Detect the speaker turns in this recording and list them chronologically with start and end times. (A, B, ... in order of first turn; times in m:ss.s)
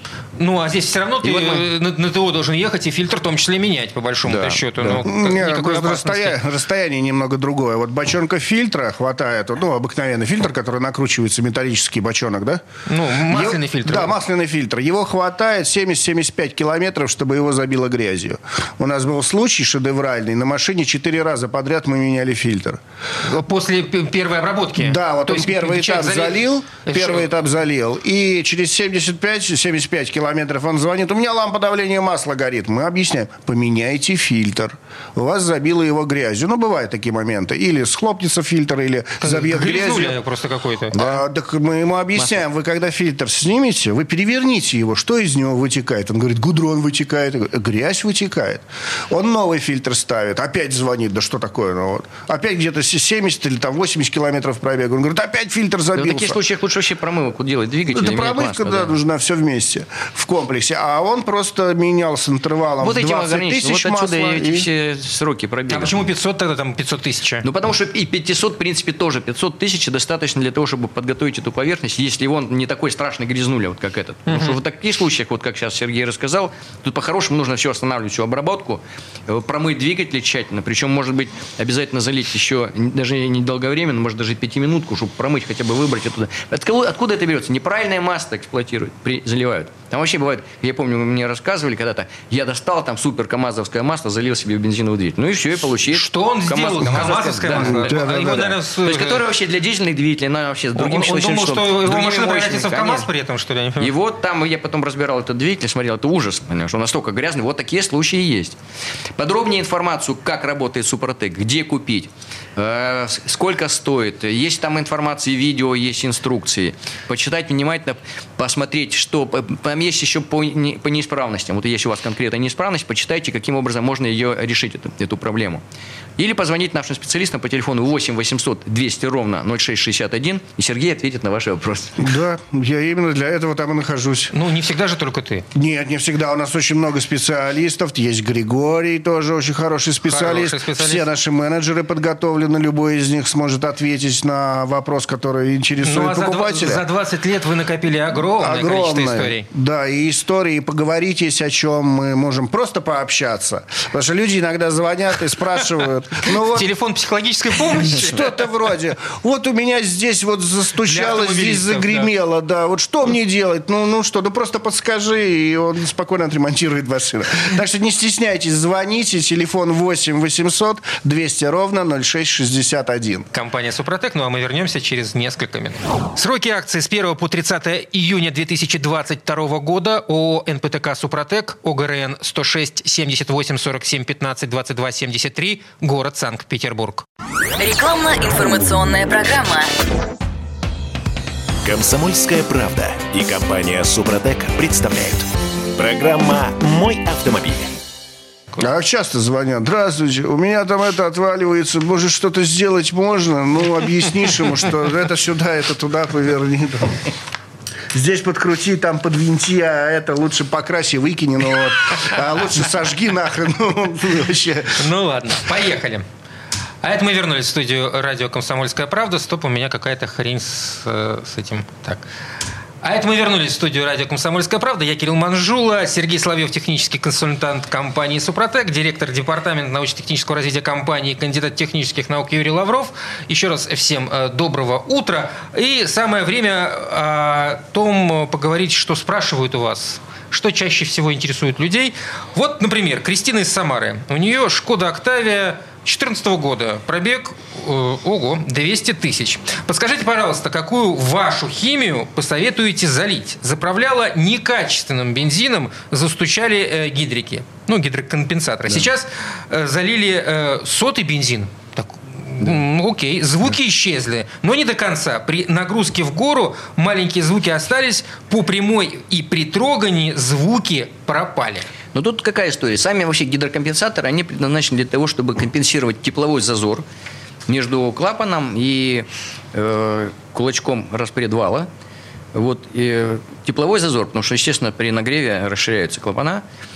0:00.4-0:06.4 A
0:01.2-0:01.6 B
0:04.2-0:05.0 B
0:05.0-0:12.6 C
0:12.9-0:14.1 A
0:13.2-0:22.8 C
0:23.2-0:27.2 A
0:24.8-0:40.2 C
0:39.2-0:41.0 A
0:40.9-0:56.4 C
0:42.2-0:42.4 B
0:55.9-0:58.9 B
0:57.9-1:04.7 C
1:02.8-1:06.0 B
1:05.7-1:07.4 A
1:07.4-1:43.1 B
1:14.3-1:14.6 A
1:35.9-1:39.2 A
1:37.6-1:38.5 C
1:40.8-1:43.9 A
1:43.8-1:48.6 B
1:49.2-2:05.6 B
2:06.2-2:12.1 B
2:12.0-2:14.3 C
2:14.3-2:15.4 A
2:15.5-2:26.8 C
2:20.0-2:21.1 A
2:25.8-2:29.5 A
2:28.2-2:36.7 C
2:36.3-2:38.5 A
2:37.8-2:53.3 C
2:40.8-2:42.1 A
2:53.3-3:07.0 A
3:07.6-3:09.7 D
3:11.6-3:17.8 E
3:18.6-3:27.1 C
3:27.9-3:34.9 C
3:34.8-3:36.0 A
3:36.8-3:42.0 A
3:42.8-4:31.7 A
4:31.9-4:36.8 B
4:37.5-4:41.7 B
4:42.3-4:46.4 B